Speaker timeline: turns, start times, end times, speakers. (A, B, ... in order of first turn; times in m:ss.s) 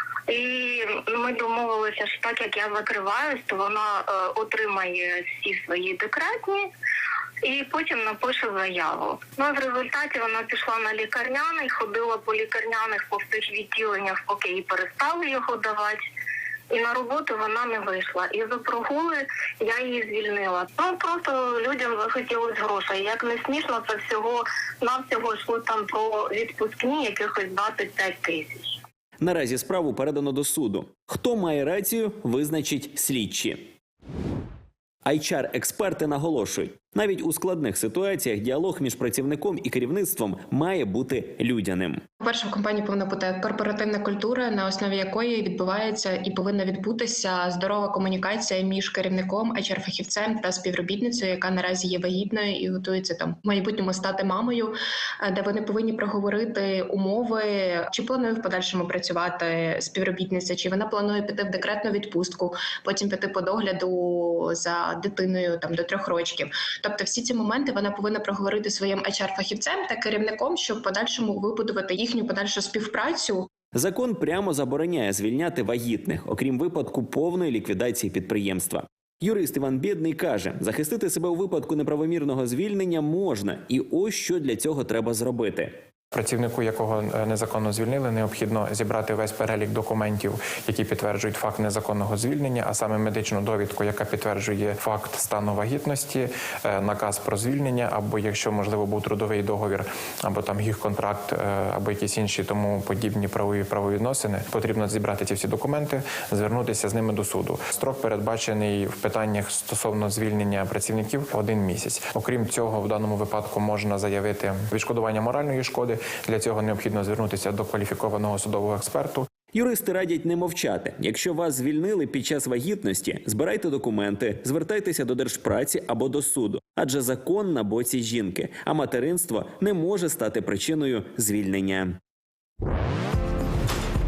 0:00.3-0:06.7 A
0:07.4-0:16.1 A
0:16.7-0:28.8 A
0:29.2-0:33.7 B
0:35.1-0:42.0 B
0:42.2-1:13.5 C
1:13.7-1:25.7 B
1:26.1-1:59.3 D
1:59.5-2:12.0 B